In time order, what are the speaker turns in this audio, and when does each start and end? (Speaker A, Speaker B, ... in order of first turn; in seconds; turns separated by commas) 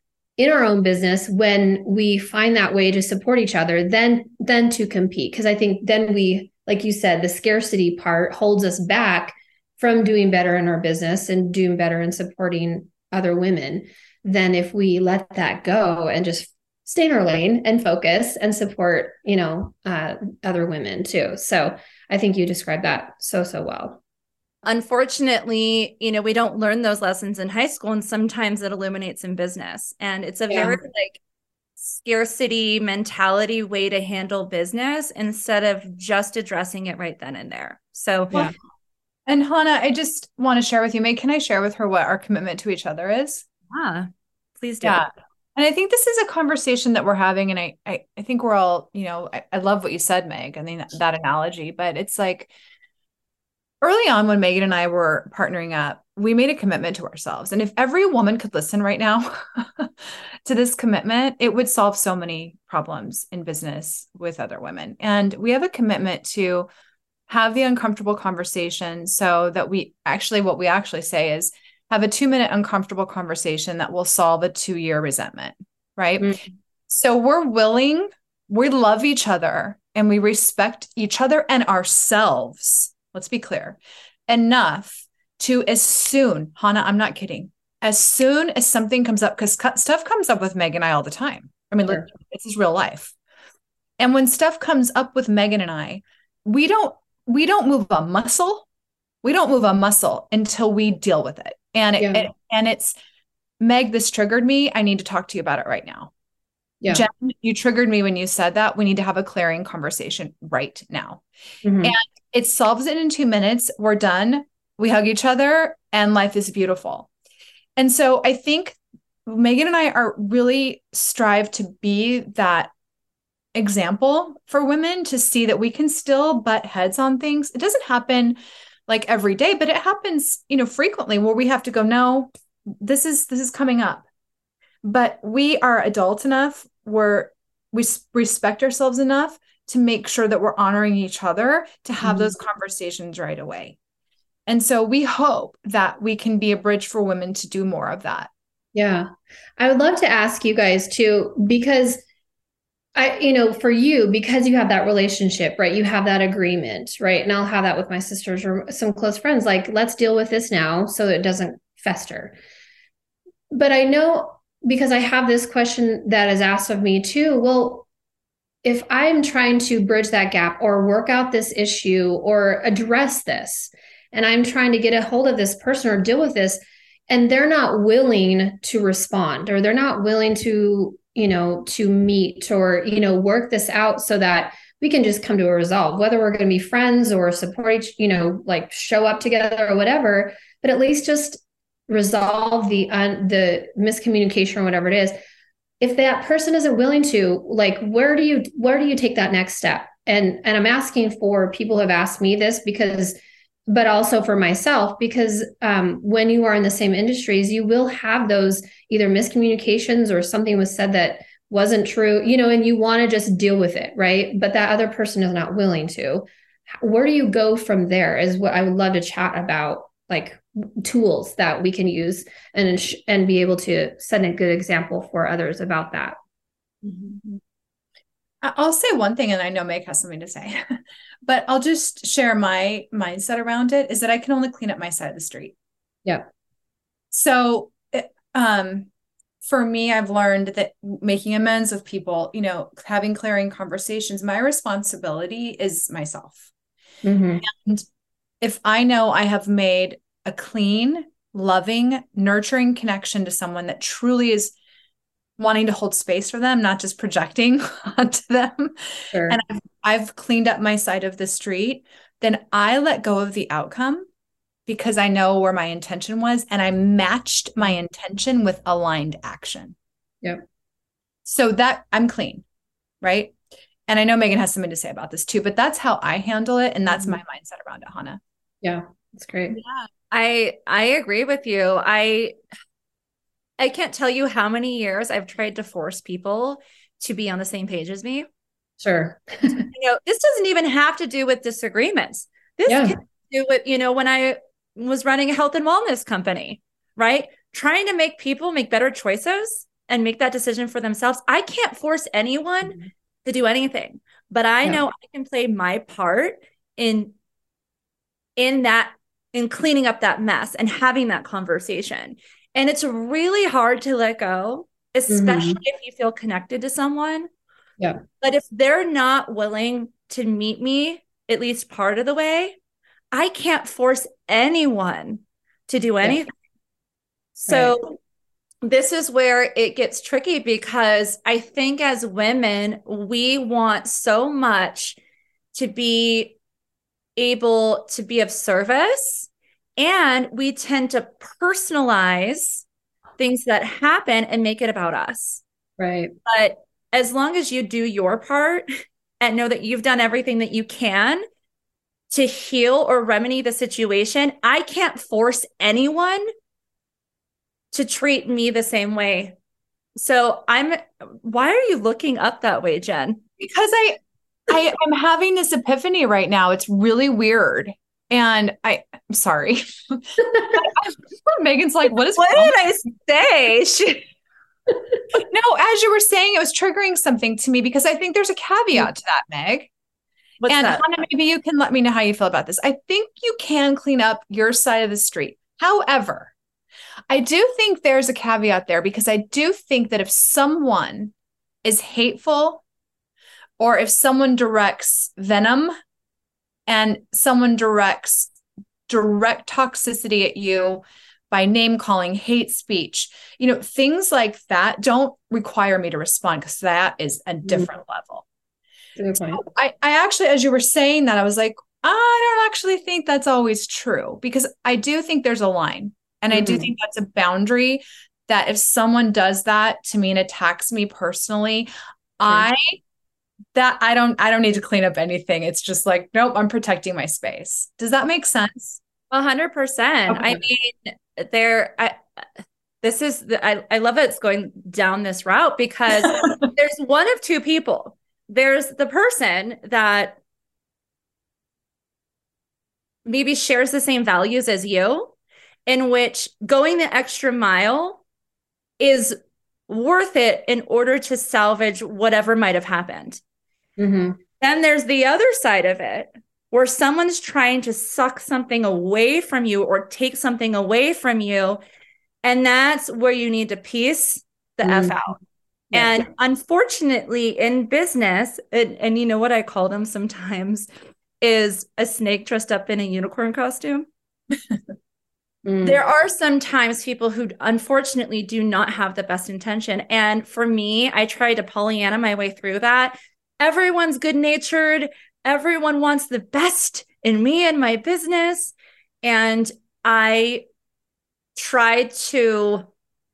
Speaker A: 0.4-24.0, Speaker B: 24.6-31.2, Speaker A: 30.5-30.8, Speaker B: 31.8-38.4, Speaker C: 39.3-43.4, Speaker B: 43.7-44.1, Speaker B: 44.6-45.0, Speaker C: 44.8-52.5, Speaker C: 53.8-66.7, Speaker C: 67.3-76.4, Speaker A: 76.2-76.5, Speaker C: 76.9-93.1, Speaker C: 94.0-98.7, Speaker C: 99.2-102.9, Speaker A: 102.0-102.3, Speaker C: 103.6-106.1, Speaker C: 106.9-111.2, Speaker A: 111.6-112.0, Speaker C: 111.8-117.1, Speaker C: 117.8-122.7, Speaker C: 123.5-128.4, Speaker C: 128.9-134.1, Speaker C: 134.8-143.8, Speaker A: 142.0-142.4, Speaker C: 144.5-148.3, Speaker A: 148.7-152.0, Speaker A: 152.9-162.3, Speaker A: 163.5-167.9, Speaker A: 168.6-195.1, Speaker A: 195.8-203.2, Speaker A: 203.7-226.2, Speaker B: 226.8-227.2, Speaker C: 228.4-235.5, Speaker C: 237.1-238.9, Speaker C: 239.4-246.5, Speaker A: 247.0-247.4, Speaker C: 247.4-247.8, Speaker C: 248.4-254.5, Speaker C: 255.4-264.1, Speaker A: 259.1-259.4, Speaker C: 264.7-269.8, Speaker C: 271.2-272.4, Speaker C: 273.0-273.4, Speaker C: 273.9-278.2, Speaker A: 276.9-277.2, Speaker A: 278.6-279.6, Speaker B: 279.5-282.4, Speaker B: 283.6-288.3, Speaker A: 288.8-289.7, Speaker B: 289.7-307.1, Speaker A: 292.7-293.0, Speaker B: 308.4-317.3, Speaker A: 315.1-315.6, Speaker B: 318.2-322.6, Speaker B: 323.1-326.3, Speaker B: 327.4-328.0, Speaker A: 327.5-327.8, Speaker B: 328.6-335.0, Speaker B: 335.5-336.4, Speaker B: 337.1-342.6, Speaker B: 343.2-345.4, Speaker A: 345.8-346.1, Speaker B: 346.2-348.7, Speaker B: 349.2-351.2, Speaker B: 352.1-356.2, Speaker B: 357.7-359.4, Speaker B: 359.9-363.2, Speaker C: 363.4-372.6, Speaker B: 372.1-374.0, Speaker C: 375.1-379.7, Speaker B: 380.4-380.8, Speaker C: 380.5-386.3, Speaker C: 387.1-392.6, Speaker C: 393.6-395.7, Speaker C: 396.7-398.3, Speaker C: 398.9-408.2, Speaker A: 407.4-407.7, Speaker A: 409.0-409.4, Speaker C: 409.1-422.8, Speaker A: 416.3-416.7, Speaker C: 423.5-428.8, Speaker B: 429.1-432.0, Speaker B: 432.8-440.2, Speaker B: 443.1-445.1, Speaker B: 445.7-448.0, Speaker B: 448.8-449.1, Speaker B: 449.7-453.2, Speaker A: 453.8-454.2, Speaker B: 454.4-461.6, Speaker B: 462.2-465.2, Speaker A: 464.6-465.0, Speaker A: 465.7-466.0, Speaker B: 465.7-470.7, Speaker B: 471.2-473.9, Speaker A: 475.4-475.8, Speaker B: 475.6-490.4, Speaker B: 491.4-492.6